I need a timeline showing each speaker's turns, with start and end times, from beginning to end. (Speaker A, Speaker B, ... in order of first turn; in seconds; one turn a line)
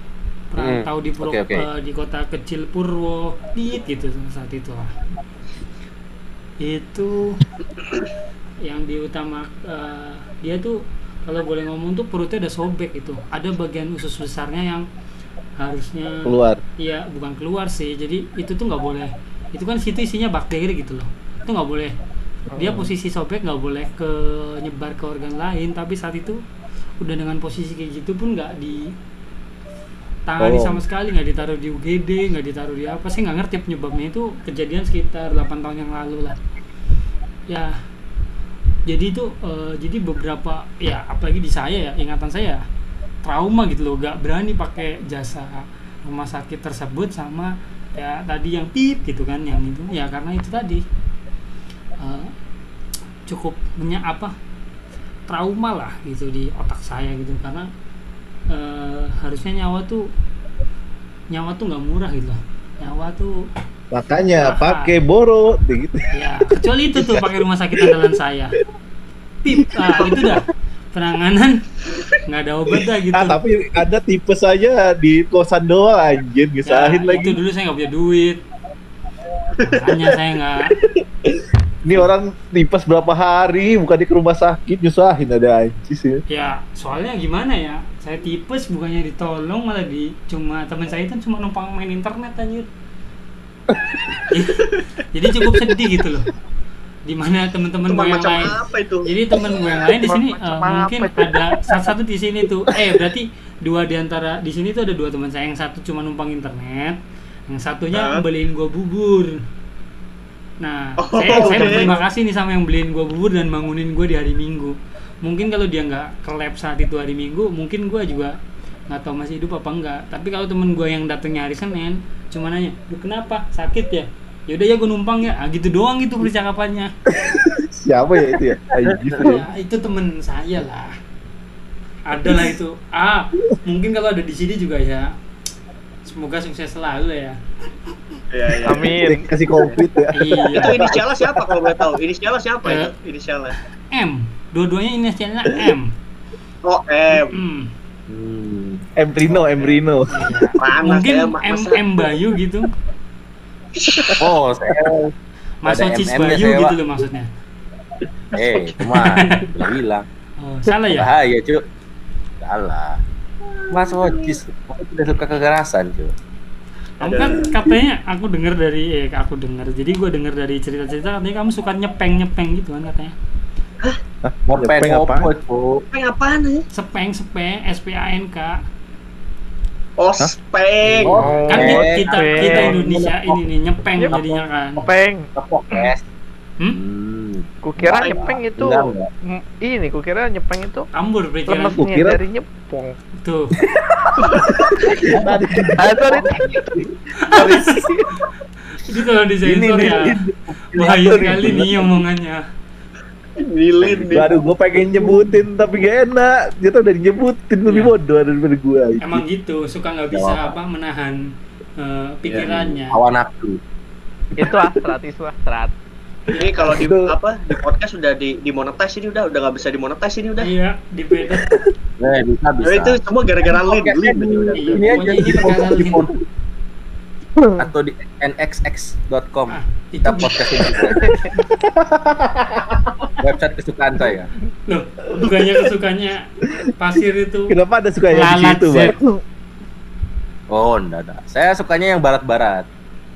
Speaker A: 0.5-4.9
Speaker B: 0.6-1.6
Speaker A: 6.6-7.4
Speaker A: 8.6-14.8
Speaker A: 15.6-21.9
Speaker C: 16.2-16.6
Speaker A: 22.5-26.4
Speaker A: 27.0-28.9
Speaker A: 30.3-36.4
Speaker B: 30.4-30.8
Speaker A: 37.5-37.7
Speaker A: 38.9-42.6
Speaker A: 43.2-50.8
Speaker A: 52.0-52.3
Speaker A: 53.3-54.3
Speaker A: 55.3-57.7
Speaker A: 58.5-60.0
Speaker A: 61.3-63.4
Speaker C: 63.9-66.1
Speaker A: 64.4-65.0
Speaker A: 66.1-68.6
Speaker A: 69.4-71.5
Speaker C: 69.6-70.3
Speaker A: 72.2-73.4
Speaker C: 73.1-77.4
Speaker A: 76.7-78.4
Speaker D: 79.6-79.8
Speaker A: 79.6-80.7
Speaker C: 80.8-86.2
Speaker A: 86.3-92.7
Speaker C: 93.7-94.2
Speaker A: 94.3-96.3
Speaker A: 97.0-109.4
Speaker D: 97.8-99.1
Speaker E: 100.0-101.4
Speaker D: 107.9-108.2
Speaker A: 110.6-118.3
Speaker D: 111.0-111.9
Speaker C: 111.3-111.9
Speaker A: 118.9-126.9
Speaker C: 127.1-129.4
Speaker B: 128.8-129.4
Speaker A: 129.2-130.9
Speaker A: 132.1-135.1
Speaker A: 136.0-137.4
Speaker D: 138.3-139.0
Speaker E: 138.6-139.8
Speaker C: 139.0-141.8
Speaker A: 140.2-140.8
Speaker D: 140.5-143.6
Speaker A: 142.7-142.9
Speaker A: 143.9-145.9
Speaker D: 146.6-147.3
Speaker A: 147.3-147.7
Speaker B: 148.1-149.8
Speaker C: 149.0-150.1
Speaker A: 150.1-152.7
Speaker D: 150.6-151.8
Speaker D: 153.8-154.2
Speaker B: 154.2-155.1
Speaker A: 155.6-157.3
Speaker B: 155.7-156.8
Speaker B: 158.3-160.1
Speaker A: 158.8-159.4
Speaker A: 160.4-161.1
Speaker B: 160.9-161.6
Speaker B: 162.4-163.0
Speaker B: 163.7-166.1
Speaker A: 167.0-173.1
Speaker D: 167.0-167.5
Speaker C: 174.2-175.3
Speaker B: 174.5-175.8
Speaker D: 175.9-176.6
Speaker A: 176.7-178.6
Speaker D: 180.0-181.5
Speaker B: 180.8-183.4
Speaker E: 181.1-182.7
Speaker A: 181.5-184.9
Speaker E: 184.0-185.9
Speaker B: 185.3-186.0
Speaker B: 186.7-189.1
Speaker E: 187.6-190.9
Speaker D: 188.0-188.3
Speaker A: 190.9-191.8
Speaker E: 191.5-193.0
Speaker C: 191.8-192.2
Speaker A: 193.2-193.5
Speaker B: 193.7-196.9
Speaker C: 195.2-196.6
Speaker E: 195.9-196.6
Speaker A: 197.2-197.8
Speaker C: 197.3-198.0
Speaker A: 198.7-200.2
Speaker B: 199.4-201.7
Speaker A: 200.7-202.4
Speaker C: 200.9-201.9
Speaker D: 203.4-204.3
Speaker B: 203.8-204.3
Speaker C: 204.1-209.2
Speaker A: 207.7-207.9
Speaker A: 209.0-211.2
Speaker B: 210.1-210.6
Speaker A: 211.8-213.0
Speaker B: 212.3-213.6
Speaker E: 214.4-215.7
Speaker D: 216.3-220.5
Speaker C: 216.6-217.1
Speaker A: 220.4-221.5
Speaker B: 222.0-226.2
Speaker D: 222.6-225.0
Speaker A: 224.5-226.1
Speaker B: 227.6-231.2
Speaker A: 229.5-230.4
Speaker C: 231.6-233.1
Speaker B: 233.2-234.3
Speaker A: 234.7-237.6
Speaker C: 237.5-239.2
Speaker A: 238.1-238.9
Speaker B: 240.5-242.7